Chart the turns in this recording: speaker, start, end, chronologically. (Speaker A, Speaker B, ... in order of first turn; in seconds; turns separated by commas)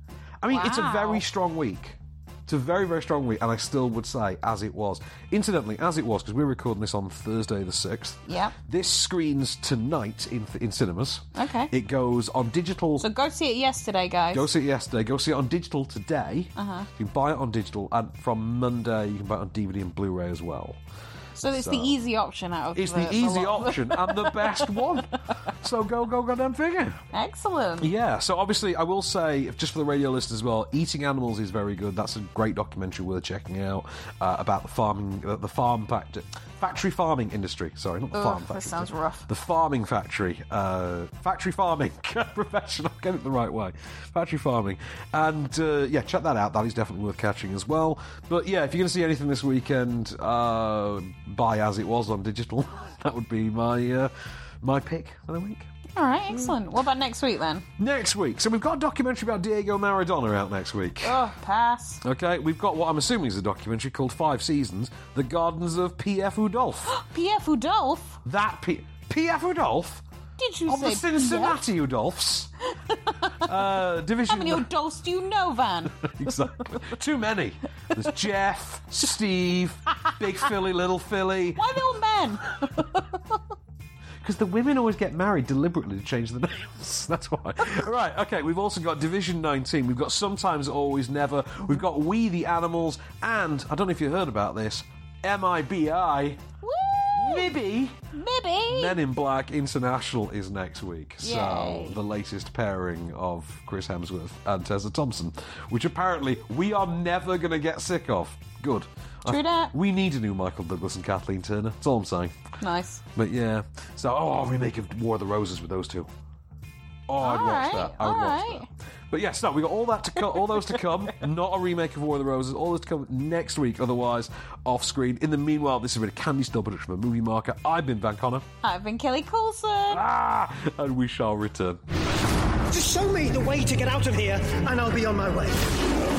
Speaker A: 0.4-13.1, Speaker B: 0.5-1.2, Speaker B: 8.3-8.6, Speaker B: 11.4-11.7, Speaker B: 13.0-14.5, Speaker A: 14.3-20.8, Speaker B: 16.6-16.9, Speaker B: 21.4-24.8, Speaker A: 21.5-22.0, Speaker A: 22.8-27.0, Speaker B: 27.1-27.9, Speaker A: 27.8-55.7, Speaker B: 38.1-39.3, Speaker B: 55.9-57.7, Speaker A: 57.8-61.2, Speaker B: 61.0-62.0, Speaker A: 62.0-67.0, Speaker B: 66.9-68.2, Speaker A: 68.2-70.0, Speaker B: 70.4-71.6, Speaker A: 70.7-72.5, Speaker B: 72.9-76.0, Speaker A: 73.4-74.7, Speaker A: 76.0-81.7, Speaker B: 81.6-83.4, Speaker A: 84.2-96.4, Speaker B: 96.6-97.5, Speaker A: 97.2-98.0, Speaker B: 98.1-99.0, Speaker A: 98.7-112.4, Speaker B: 101.2-102.0, Speaker B: 109.3-109.7, Speaker B: 112.6-113.0, Speaker A: 113.2-116.1, Speaker A: 117.1-128.5, Speaker B: 117.2-118.7, Speaker B: 120.3-120.9, Speaker B: 128.6-130.0, Speaker A: 129.9-131.8, Speaker C: 132.7-135.6